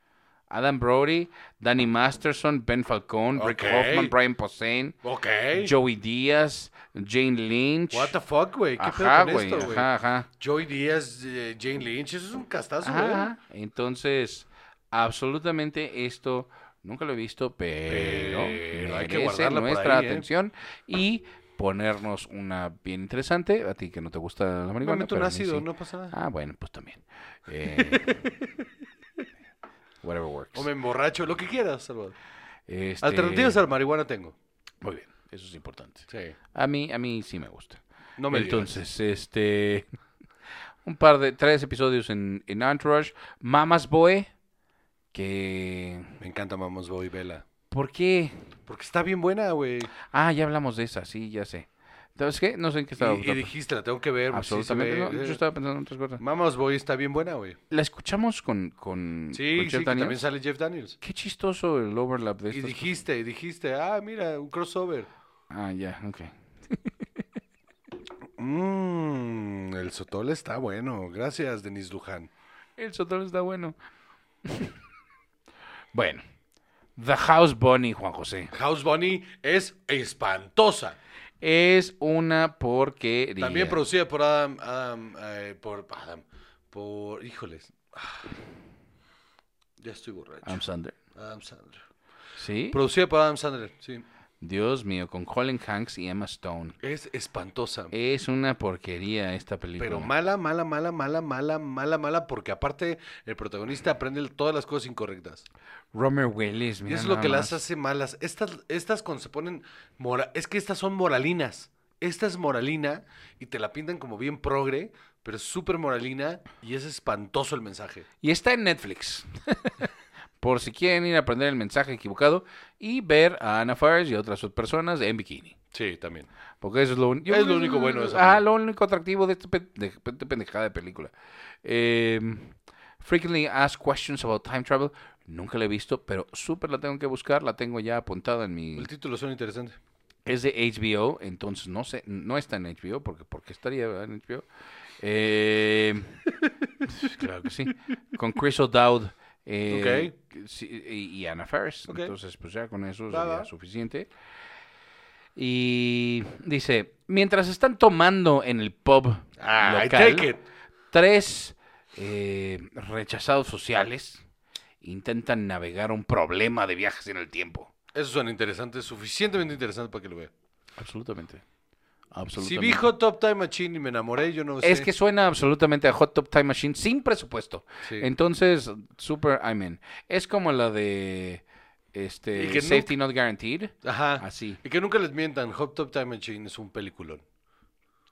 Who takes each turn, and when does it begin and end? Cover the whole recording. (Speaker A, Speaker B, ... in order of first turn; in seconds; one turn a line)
Speaker A: 0.5-5.0
Speaker B: 3.4-4.1
Speaker B: 5.0-5.7
Speaker A: 5.5-8.2
Speaker B: 7.9-9.9
Speaker A: 8.8-10.3
Speaker B: 10.4-13.3
Speaker A: 12.8-28.2
Speaker B: 17.9-20.3
Speaker B: 24.8-26.1
Speaker B: 27.7-28.5
Speaker A: 30.0-30.7
Speaker B: 30.5-32.2
Speaker A: 32.7-33.6
Speaker B: 33.0-34.4
Speaker A: 34.8-39.9
Speaker B: 36.1-36.4
Speaker B: 38.2-38.8
Speaker A: 40.8-44.3
Speaker A: 45.1-46.2
Speaker B: 46.2-47.4
Speaker A: 47.7-48.4
Speaker B: 48.7-49.9
Speaker A: 50.1-53.5
Speaker B: 53.0-55.4
Speaker A: 54.3-56.2
Speaker B: 56.2-57.6
Speaker A: 57.7-60.3
Speaker B: 59.3-61.0
Speaker A: 61.0-62.9
Speaker B: 62.5-65.1
Speaker A: 65.5-66.9
Speaker B: 68.4-72.3
Speaker A: 72.8-73.8
Speaker A: 74.4-74.8
Speaker A: 75.9-76.2
Speaker A: 77.0-78.5
Speaker B: 78.5-81.0
Speaker A: 81.4-83.8
Speaker B: 83.4-88.3
Speaker B: 89.8-90.6
Speaker A: 90.5-91.0
Speaker B: 91.2-91.8
Speaker A: 92.4-92.8
Speaker B: 92.7-94.0
Speaker A: 94.4-96.8
Speaker B: 96.8-97.9
Speaker A: 97.9-100.1
Speaker B: 99.8-105.5
Speaker A: 105.9-107.6
Speaker B: 106.9-118.1
Speaker A: 118.2-119.9
Speaker A: 120.4-125.6
Speaker B: 125.7-126.3
Speaker A: 126.6-138.9
Speaker B: 127.3-128.4
Speaker B: 138.8-139.8
Speaker A: 140.3-144.5
Speaker A: 145.0-146.2
Speaker B: 146.5-146.8
Speaker A: 146.9-154.1
Speaker B: 149.7-150.1
Speaker B: 153.1-153.5
Speaker A: 155.4-160.3
Speaker B: 159.4-160.4
Speaker A: 160.9-164.2
Speaker A: 164.8-167.7
Speaker B: 167.9-170.3
Speaker A: 170.8-171.4
Speaker A: 172.1-172.9
Speaker B: 172.4-174.9
Speaker A: 174.6-184.6
Speaker B: 177.8-178.1
Speaker B: 182.3-182.9
Speaker B: 183.8-187.2